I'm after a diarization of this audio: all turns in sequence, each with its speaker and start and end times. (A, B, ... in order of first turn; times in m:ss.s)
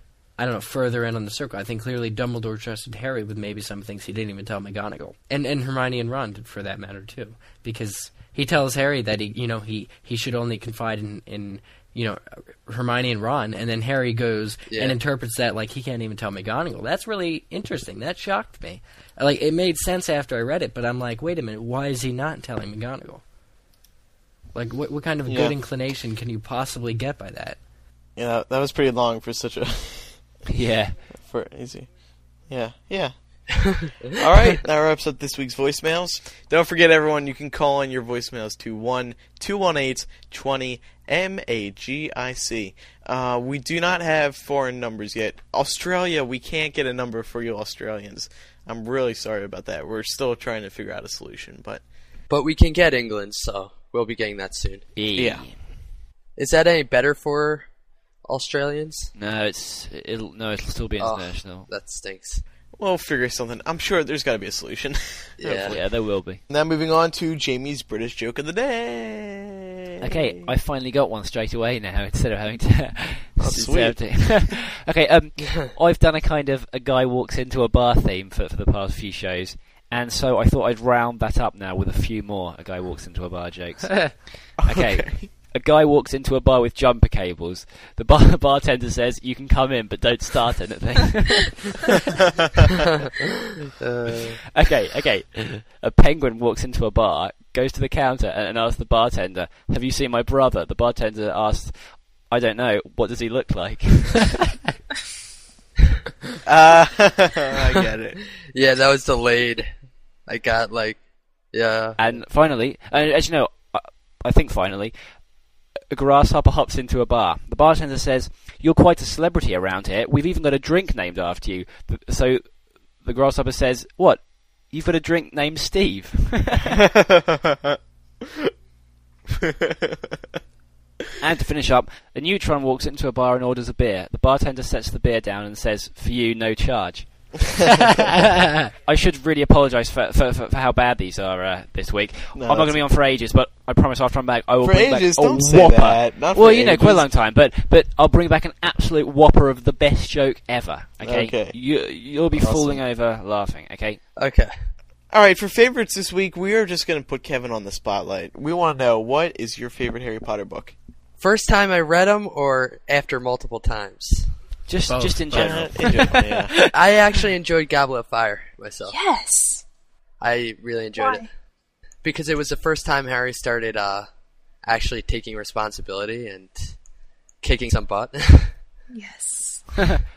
0:00.4-0:23.2 A
0:14.7-0:15.0 B
0:24.5-0:27.6 A
0:25.3-0:25.6 C
0:28.2-0:30.4 C
0:30.5-0:31.0 D
0:31.2-0:31.9 C
0:32.5-0:51.8 C
0:33.6-0:33.9 B
0:52.3-0:54.9 B
0:55.0-0:55.6 D
0:55.2-0:55.4 C
0:56.4-0:57.7 B
0:58.2-0:59.1 B
0:59.2-1:01.7 D
1:01.0-1:02.4 B
1:02.8-1:05.8 C
1:05.4-1:05.8 B
1:05.6-1:06.4 D
1:06.5-1:10.3 C
1:10.0-1:32.0 D
1:13.4-1:14.5 C
1:15.5-1:15.7 B
1:24.6-1:25.3 C
1:33.8-1:34.4 B
1:34.5-1:44.4 D
1:46.5-1:48.2 C
1:48.5-1:49.8 B
1:50.3-1:51.0 B
1:51.5-1:52.0 B
1:52.0-1:55.0 D
1:55.9-2:06.8 D
2:06.9-2:07.8 C
2:09.4-2:10.2 C
2:11.2-2:17.8 D
2:18.8-2:34.0 D
2:22.3-2:22.8 C
2:24.6-2:27.1 C
2:31.0-2:31.6 C
2:32.3-2:32.8 C
2:34.2-2:34.7 B
2:35.1-2:40.8 C
2:41.2-2:44.3 B
2:44.7-2:46.6 D
2:44.9-2:45.6 A
2:45.3-2:46.6 C
2:46.7-2:49.0 B
2:48.9-2:49.6 E
2:50.2-2:51.3 B
2:51.0-2:51.3 E
2:52.0-2:54.1 B
2:54.6-2:56.8 B
2:57.4-2:58.6 B
2:58.9-2:59.8 E